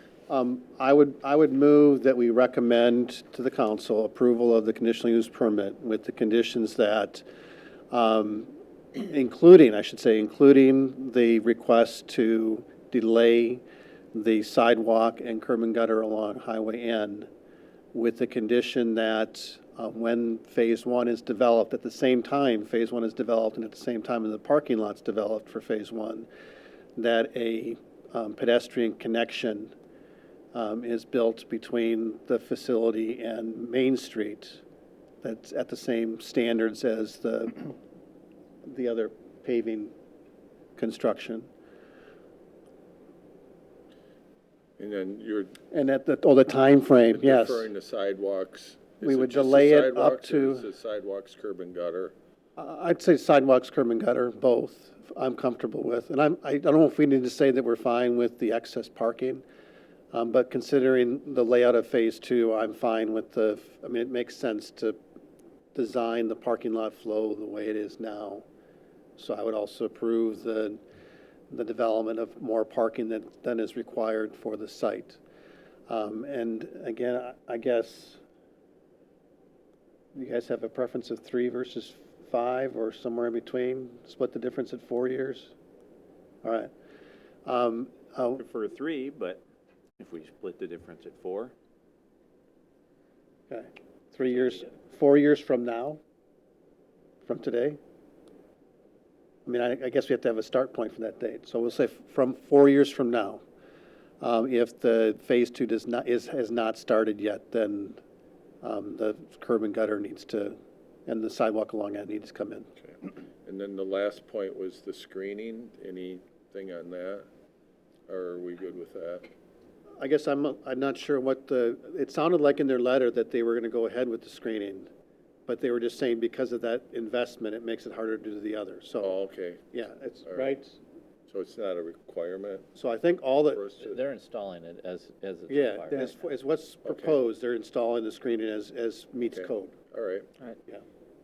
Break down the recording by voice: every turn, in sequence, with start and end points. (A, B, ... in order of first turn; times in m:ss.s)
0:00.3-0:07.2 A
0:07.9-0:17.3 A
0:17.9-0:26.3 A
0:27.0-0:29.7 A
0:30.5-0:34.6 A
0:35.2-0:37.7 A
0:38.6-0:39.9 A
0:40.8-0:41.5 A
0:44.8-0:45.6 B
0:45.7-0:47.7 A
0:47.1-0:52.1 B
0:49.0-0:50.7 A
0:52.6-0:59.4 A
1:00.1-1:05.0 A
1:05.8-1:08.4 A
1:09.2-1:10.8 A
1:11.5-1:15.2 A
1:15.9-1:18.2 A
1:20.2-1:25.5 A
1:26.4-1:26.7 A
1:27.5-1:28.4 A
1:28.8-1:29.4 C
1:30.0-1:31.5 C
1:33.5-1:36.0 A
1:37.3-1:37.8 A
1:39.5-1:43.4 A
1:44.2-1:48.0 A
1:48.6-1:52.7 A
1:53.5-1:57.3 B
1:58.1-1:59.3 B
2:00.0-2:04.9 A
2:05.5-2:09.2 A
2:09.0-2:09.7 B
2:09.7-2:10.6 A
2:10.3-2:10.6 B
2:11.3-2:12.7 B
2:12.8-2:13.7 A
2:13.5-2:14.0 B
2:13.8-2:16.0 D
2:15.5-2:19.7 A
2:16.8-2:17.2 B
2:19.3-2:20.3 B